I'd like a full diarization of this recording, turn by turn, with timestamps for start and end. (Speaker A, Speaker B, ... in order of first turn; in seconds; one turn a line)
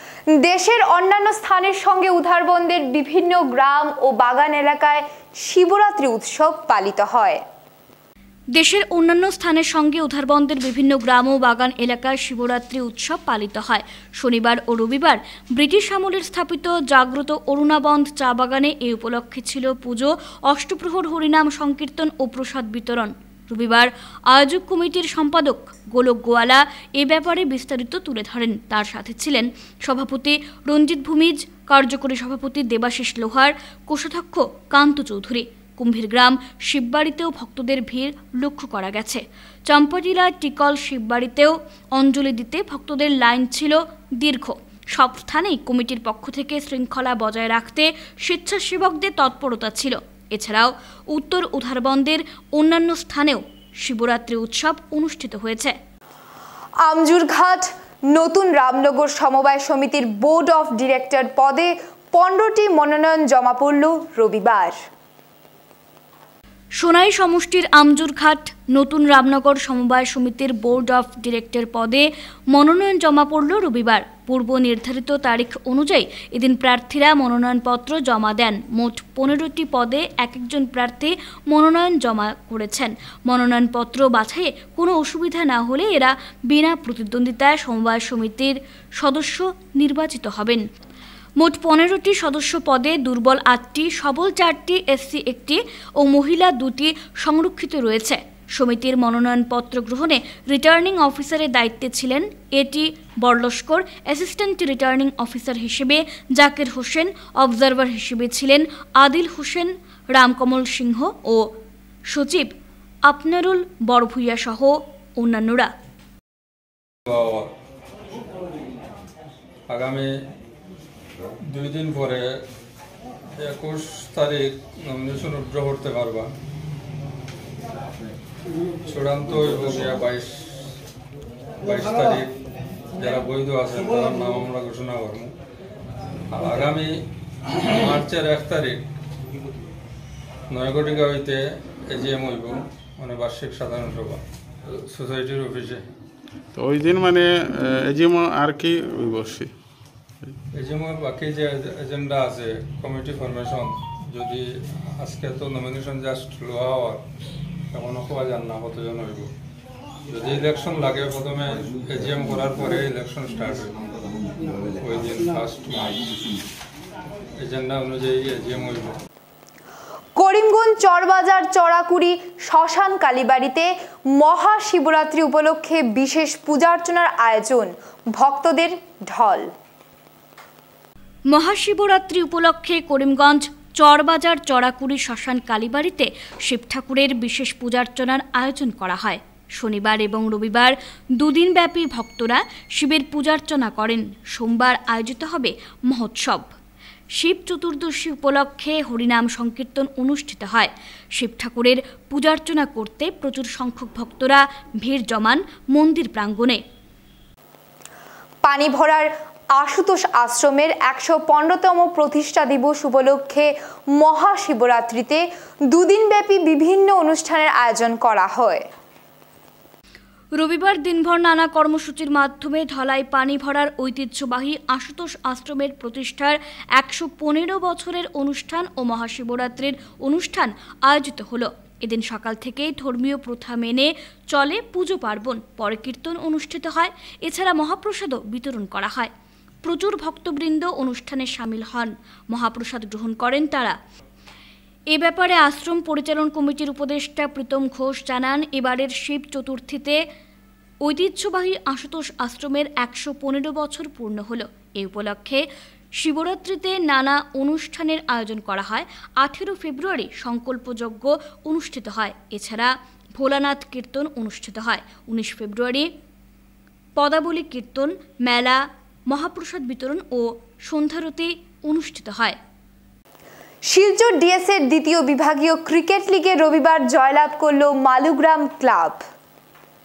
Speaker A: 0.4-7.4
Speaker B: 8.5-55.8
Speaker A: 56.8-64.8
Speaker B: 66.8-90.6
Speaker B: 91.4-111.5
Speaker B: 112.1-112.5
Speaker B: 113.1-115.7
Speaker C: 117.1-117.5
Speaker C: 119.7-120.1
Speaker C: 121.5-122.4
Speaker C: 123.4-126.3
Speaker C: 128.9-130.6
Speaker C: 131.6-132.3
Speaker C: 133.0-135.3
Speaker C: 136.3-137.0
Speaker C: 137.6-138.8
Speaker C: 140.5-145.8
Speaker D: 146.6-149.5
Speaker C: 150.6-157.0
Speaker C: 157.7-159.3
Speaker C: 160.1-163.8
Speaker C: 164.8-166.1
Speaker C: 167.4-169.0
Speaker A: 170.2-179.5
Speaker B: 181.3-196.5
Speaker B: 197.2-206.6
Speaker A: 208.4-218.7
Speaker B: 220.4-239.1
Speaker B: 239.6-243.8
Speaker B: 244.9-250.0
Speaker B: 250.8-255.4
Speaker B: 256.0-265.9
Speaker B: 267.0-272.4
Speaker A: 273.7-279.0